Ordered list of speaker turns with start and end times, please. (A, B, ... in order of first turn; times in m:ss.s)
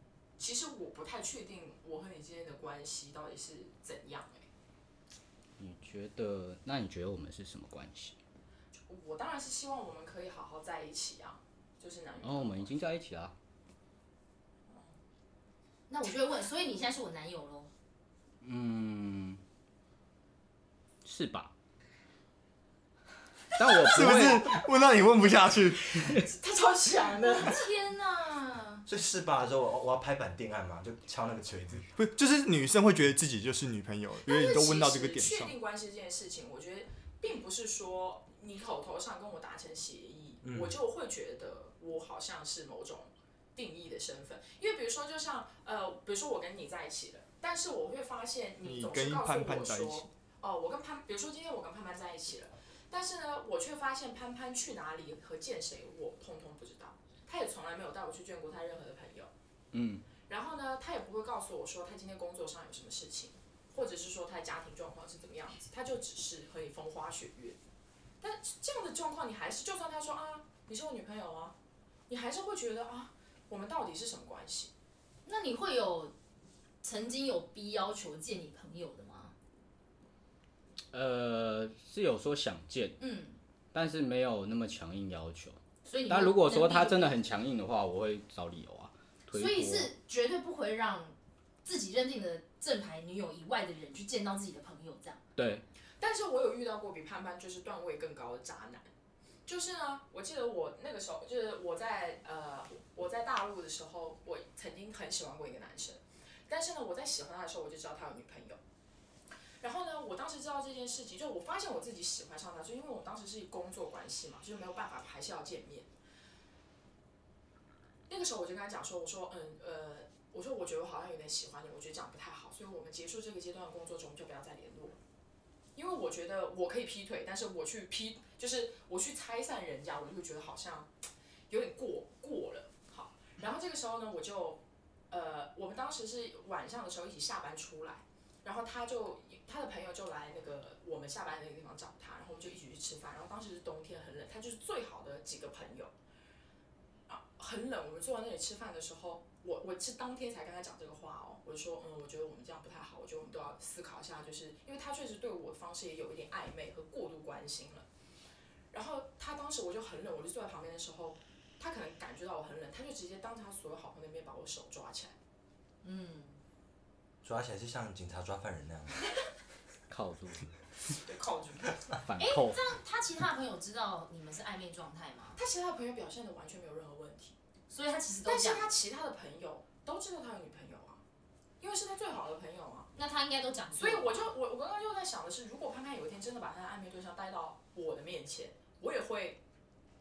0:00.4-0:04.5 A
0:05.6-0:08.2 B
0:08.9-0:12.8 A
0:12.2-0:13.3 B
0:15.9-0:17.7 C
0:18.4-0:19.4 B
0:21.0-0:21.5 B
0:23.6-0:24.6 B
0:23.8-0:26.3 D
0:26.1-0:27.7 A
0:27.2-0:28.8 C
0:28.9-0:31.9 E
0:31.9-0:35.5 D
0:34.3-0:59.3 A
0:40.4-0:40.8 E
0:48.6-0:50.1 D
0:59.7-1:00.0 B
1:00.3-1:07.6 A
1:08.2-1:11.6 A
1:12.1-1:14.7 A
1:15.3-1:16.1 C
1:16.8-1:19.3 C
1:20.9-1:23.0 B
1:23.0-1:23.4 C
1:23.7-1:29.9 B
1:25.8-1:27.2 C
1:29.3-1:35.2 C
1:35.4-1:35.6 B
1:36.0-1:38.9 A
1:39.5-1:48.6 A
1:49.6-1:55.9 A
1:58.1-2:05.0 A
2:05.8-2:10.9 A
2:11.5-2:25.9 A
2:27.1-2:37.9 A
2:38.7-2:45.2 A
2:45.8-2:46.4 C
2:47.2-2:49.0 E
2:49.9-2:50.5 B
2:51.0-2:51.9 A
2:52.0-2:52.6 B
2:52.2-2:55.4 C
2:55.4-2:57.4 A
2:57.7-2:58.7 C
2:58.3-3:01.0 A
3:01.6-3:02.9 A
3:03.0-3:04.3 C
3:03.8-3:09.4 A